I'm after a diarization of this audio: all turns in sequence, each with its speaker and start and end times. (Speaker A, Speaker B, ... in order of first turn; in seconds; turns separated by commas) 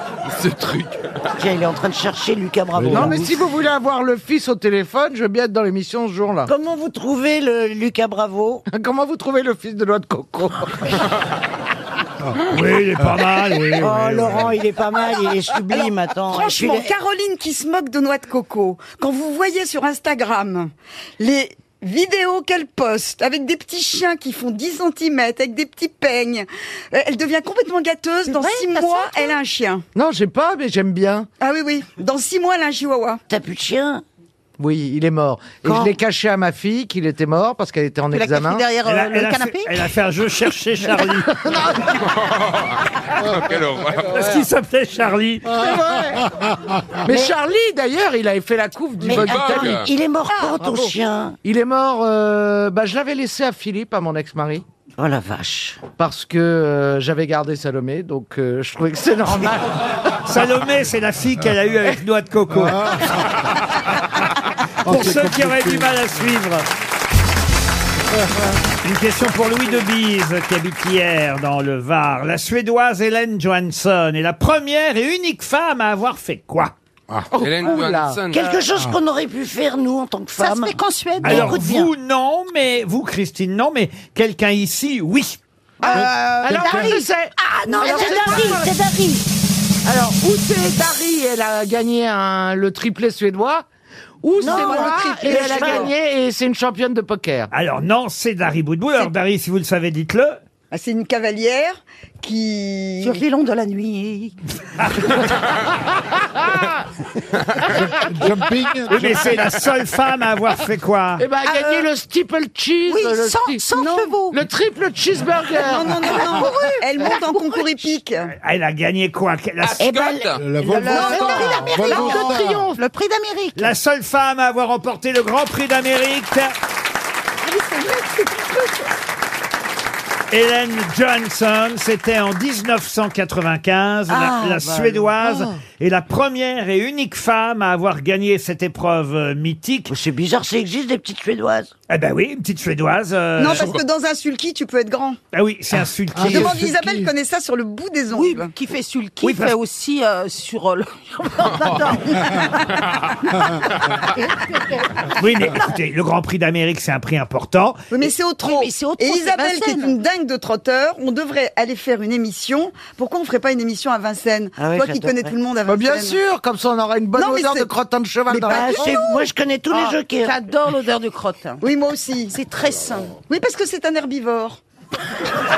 Speaker A: 0.2-1.1, Speaker B: 1.3-3.3, Speaker C: 2.7-3.2, Speaker D: 2.9-6.5, Speaker B: 6.5-8.6, Speaker D: 8.7-10.7, Speaker E: 12.5-14.6, Speaker B: 13.7-16.9, Speaker F: 15.7-29.8, Speaker G: 28.2-29.4, Speaker D: 29.9-31.3, Speaker F: 31.4-33.2, Speaker B: 33.3-34.0, Speaker D: 34.6-38.7, Speaker B: 35.6-36.0, Speaker G: 38.1-39.8, Speaker E: 38.9-41.3, Speaker A: 41.8-44.4, Speaker E: 44.1-45.6, Speaker D: 45.5-46.2, Speaker C: 45.6-46.8, Speaker D: 47.0-49.8, Speaker B: 47.1-47.3, Speaker B: 49.0-51.4, Speaker A: 49.1-49.9, Speaker G: 50.4-50.9, Speaker D: 50.6-50.9, Speaker D: 51.4-54.6, Speaker B: 55.0-55.8, Speaker D: 56.0-59.7, Speaker E: 60.2-63.0, Speaker C: 62.5-63.2, Speaker C: 64.8-66.0, Speaker E: 64.8-66.6, Speaker E: 68.8-76.7, Speaker D: 77.3-78.6, Speaker A: 77.4-78.6, Speaker B: 78.3-81.8, Speaker G: 80.4-81.8, Speaker E: 81.2-85.4, Speaker C: 81.2-81.5, Speaker D: 85.8-88.7, Speaker G: 85.8-88.7, Speaker C: 85.9-87.0, Speaker B: 87.8-89.2, Speaker D: 89.8-93.6, Speaker D: 94.2-97.5, Speaker B: 94.4-95.9, Speaker F: 94.4-95.9, Speaker E: 97.5-100.4, Speaker F: 100.7-103.2, Speaker G: 103.0-104.3, Speaker C: 107.6-109.5, Speaker E: 108.9-111.2, Speaker D: 111.2-113.6, Speaker G: 111.5-111.7, Speaker G: 112.8-114.4, Speaker F: 113.8-114.1, Speaker D: 114.3-116.2, Speaker F: 115.6-118.3, Speaker G: 116.0-117.8, Speaker E: 118.4-119.9, Speaker A: 119.6-120.4, Speaker B: 119.9-120.1, Speaker G: 120.0-123.7, Speaker C: 120.3-122.7, Speaker F: 120.7-122.4, Speaker E: 123.5-126.5, Speaker F: 127.4-128.9, Speaker E: 130.3-139.9, Speaker B: 134.1-135.5, Speaker B: 139.9-141.7, Speaker E: 141.9-143.7, Speaker F: 143.4-145.2, Speaker A: 143.5-143.8, Speaker E: 145.3-146.6, Speaker C: 146.1-147.1, Speaker F: 146.2-148.5, Speaker G: 148.1-152.7, Speaker E: 149.2-149.5, Speaker A: 151.4-153.0, Speaker G: 154.3-154.8, Speaker E: 155.2-157.8, Speaker F: 157.9-166.2, Speaker G: 158.4-159.9, Speaker B: 164.6-165.4, Speaker D: 165.7-169.0, Speaker F: 167.2-167.7, Speaker F: 168.3-169.2, Speaker B: 168.4-170.3, Speaker G: 169.7-171.6, Speaker F: 171.6-172.3, Speaker G: 172.3-173.2, Speaker F: 173.3-174.6